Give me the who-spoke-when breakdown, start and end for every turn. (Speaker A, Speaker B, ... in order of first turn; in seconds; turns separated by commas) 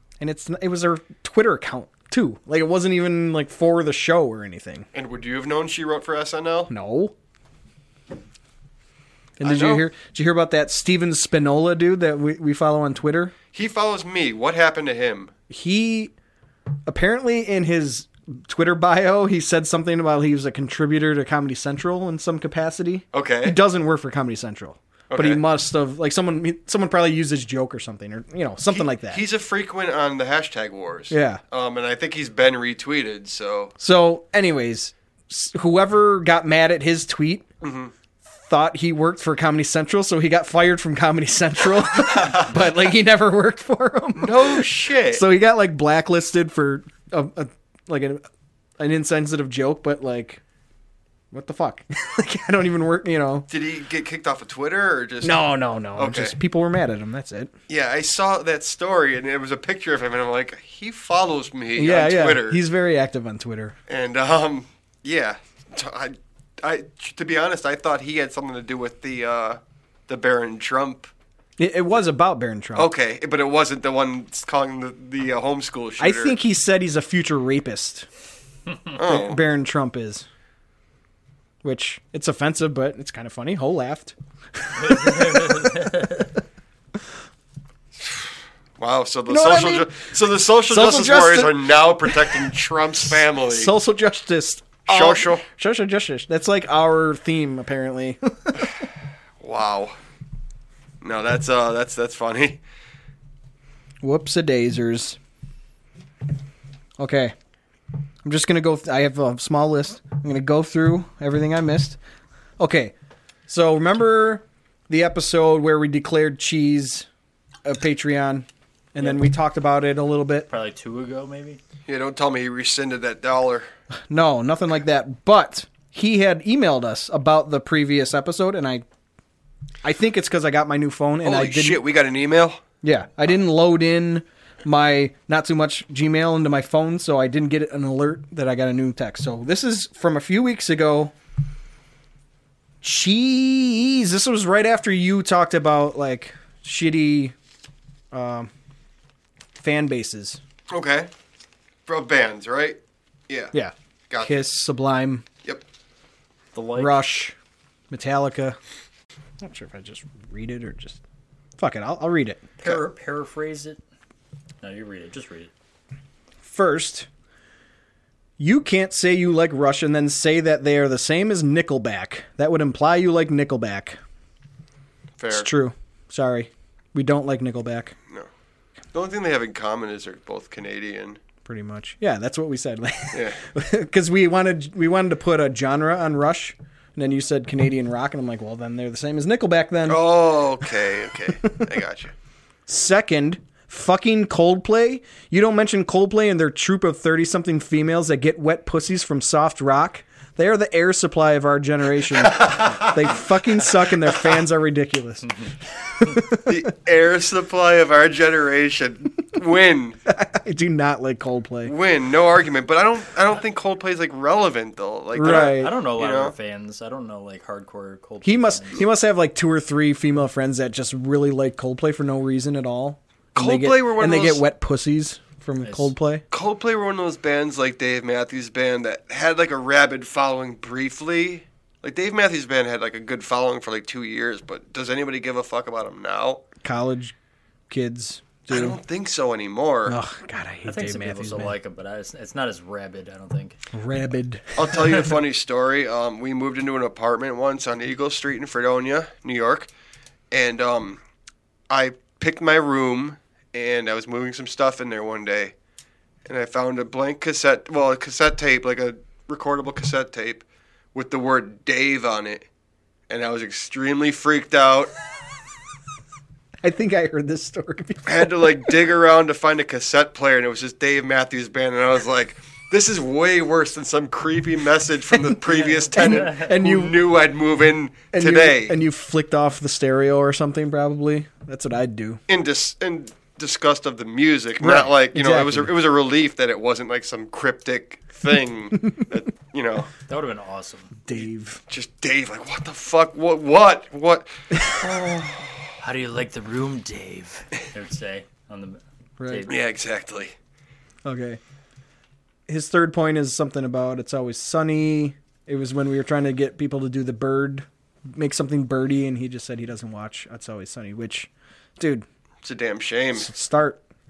Speaker A: 0.2-4.9, Speaker B: 4.9-6.7, Speaker A: 6.7-7.1, Speaker A: 9.4-13.3, Speaker B: 9.4-9.8, Speaker B: 13.5-15.3, Speaker A: 15.5-16.1, Speaker A: 16.9-29.2, Speaker B: 23.1-23.6, Speaker B: 25.1-25.4, Speaker B: 28.7-33.7, Speaker A: 31.1-31.4, Speaker A: 33.8-37.5, Speaker B: 37.6-37.9, Speaker A: 38.3-48.2, Speaker B: 42.0-42.5, Speaker B: 44.2-45.2, Speaker A: 48.8-50.4, Speaker A: 51.3-53.5, Speaker B: 53.5-55.4, Speaker A: 55.2-57.5, Speaker B: 55.9-56.4, Speaker B: 57.7-62.6, Speaker A: 61.8-63.8, Speaker B: 63.9-71.1, Speaker A: 71.6-72.9, Speaker B: 72.7-76.4, Speaker A: 76.0-78.1, Speaker B: 78.9-79.4, Speaker A: 79.0-80.2, Speaker A: 81.6-85.8, Speaker C: 84.8-86.3, Speaker B: 88.0-93.7, Speaker A: 89.3-89.9, Speaker A: 90.7-92.5, Speaker A: 93.5-98.7, Speaker B: 94.8-95.4, Speaker B: 99.4-99.9, Speaker B: 101.0-102.6, Speaker A: 104.0-105.2, Speaker A: 107.0-107.3, Speaker A: 108.2-112.0, Speaker A: 112.6-112.9, Speaker A: 113.5-117.1, Speaker A: 117.6-120.5, Speaker C: 119.0-119.2, Speaker C: 120.5-121.6, Speaker B: 121.9-123.7, Speaker A: 124.1-128.8, Speaker A: 129.8-131.8, Speaker B: 131.2-132.6, Speaker A: 132.8-141.1, Speaker A: 142.8-147.3, Speaker A: 148.1-148.5, Speaker A: 149.6-150.4, Speaker B: 150.7-151.1, Speaker B: 151.9-152.8, Speaker A: 153.5-155.2, Speaker B: 154.1-154.4, Speaker C: 156.5-157.2, Speaker A: 156.8-157.3, Speaker A: 157.9-158.6, Speaker A: 159.4-161.0, Speaker A: 161.6-162.5, Speaker C: 162.6-163.8, Speaker C: 164.6-165.5, Speaker A: 166.4-167.1, Speaker A: 168.4-174.0, Speaker B: 175.2-175.5, Speaker A: 175.3-177.9, Speaker B: 178.9-181.2, Speaker A: 181.4-190.0, Speaker B: 183.1-183.4, Speaker B: 189.9-192.1, Speaker A: 192.7-205.3, Speaker B: 202.4-202.8, Speaker A: 206.0-206.6, Speaker B: 206.4-210.0, Speaker A: 210.1-211.7, Speaker B: 211.6-216.3, Speaker A: 215.1-215.7, Speaker C: 215.2-218.8, Speaker A: 218.2-226.2, Speaker B: 223.3-224.4, Speaker C: 225.6-225.9, Speaker B: 226.3-236.4, Speaker A: 236.6-237.1, Speaker A: 237.7-238.8, Speaker B: 238.5-240.0, Speaker A: 239.8-241.5, Speaker C: 240.7-243.6, Speaker A: 243.7-244.7, Speaker B: 244.6-249.7, Speaker B: 250.3-251.0, Speaker B: 251.7-255.5, Speaker B: 256.3-262.5, Speaker B: 263.1-264.9, Speaker A: 266.6-268.5, Speaker B: 268.0-278.8, Speaker C: 275.6-276.5, Speaker A: 275.9-277.0, Speaker A: 278.1-282.2, Speaker B: 282.3-289.9, Speaker A: 284.6-285.7, Speaker C: 290.1-290.9, Speaker A: 291.0-291.6, Speaker B: 291.1-295.7, Speaker C: 295.8-299.5, Speaker A: 299.2-299.5, Speaker B: 299.5-300.3, Speaker A: 301.0-301.4, Speaker A: 302.5-312.1, Speaker B: 312.4-313.3, Speaker A: 313.1-313.8